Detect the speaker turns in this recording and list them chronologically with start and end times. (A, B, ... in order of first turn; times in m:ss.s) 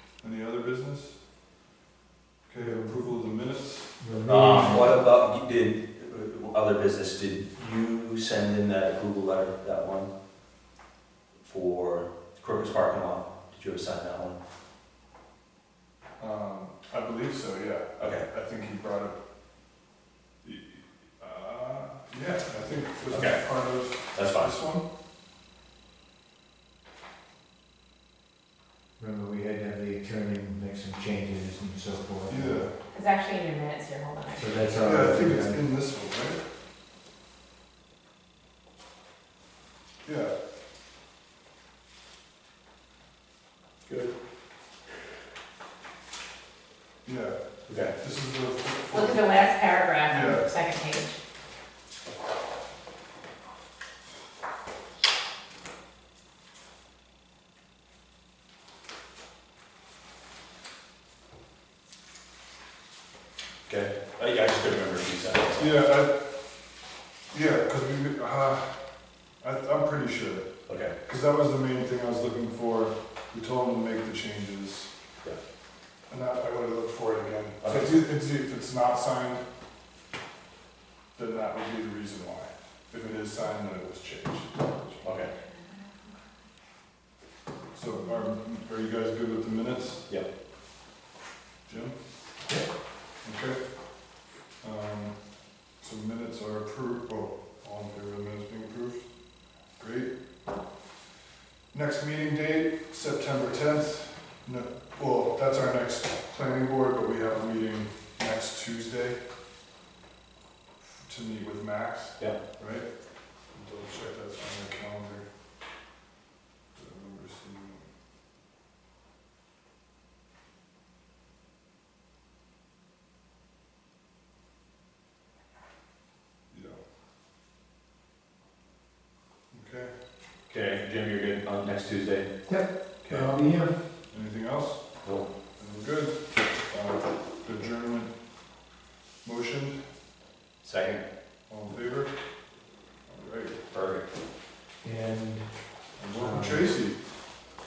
0:00.2-0:01.2 A
0:02.4-0:04.0 A
0:02.6-0:03.0 B
0:04.0-0:04.9 B
0:04.3-0:10.1 C
0:11.4-0:14.4 C
0:16.2-0:19.2 A
0:18.0-0:18.2 C
0:20.4-0:24.8 A
0:23.1-0:23.5 C
0:24.1-0:24.5 C
0:29.0-0:32.6 B
0:32.3-0:32.7 A
0:32.9-0:34.6 D
0:34.4-0:35.6 B
0:34.8-0:36.4 A
0:40.0-0:40.3 A
0:43.8-0:44.1 C
0:47.0-0:49.3 A
0:47.7-0:47.9 C
0:48.9-0:51.2 D
0:50.1-0:50.5 A
1:03.7-1:05.8 C
1:05.6-1:06.2 A
1:07.3-1:08.8 A
1:09.4-1:14.9 A
1:10.7-1:10.9 C
1:16.1-1:19.4 A
1:17.6-1:17.9 C
1:21.1-1:25.1 A
1:25.0-1:25.3 C
1:27.7-1:30.0 A
1:31.6-1:32.0 A
1:33.2-1:33.6 A
1:34.6-1:35.2 A
1:35.8-1:39.1 A
1:39.8-1:40.1 A
1:41.7-1:49.2 A
1:50.8-1:52.9 A
1:53.5-1:55.2 A
1:56.8-1:57.9 A
2:06.5-2:06.8 A
2:09.5-2:09.9 A
2:10.5-2:12.3 C
2:12.4-2:13.8 B
2:13.0-2:13.3 C
2:14.1-2:18.1 A
2:15.0-2:15.3 C
2:19.2-2:19.8 A
2:20.6-2:21.1 C
2:21.5-2:22.2 A
2:23.1-2:23.6 A
2:23.7-2:24.1 C
2:24.8-2:26.8 B
2:26.0-2:27.0 A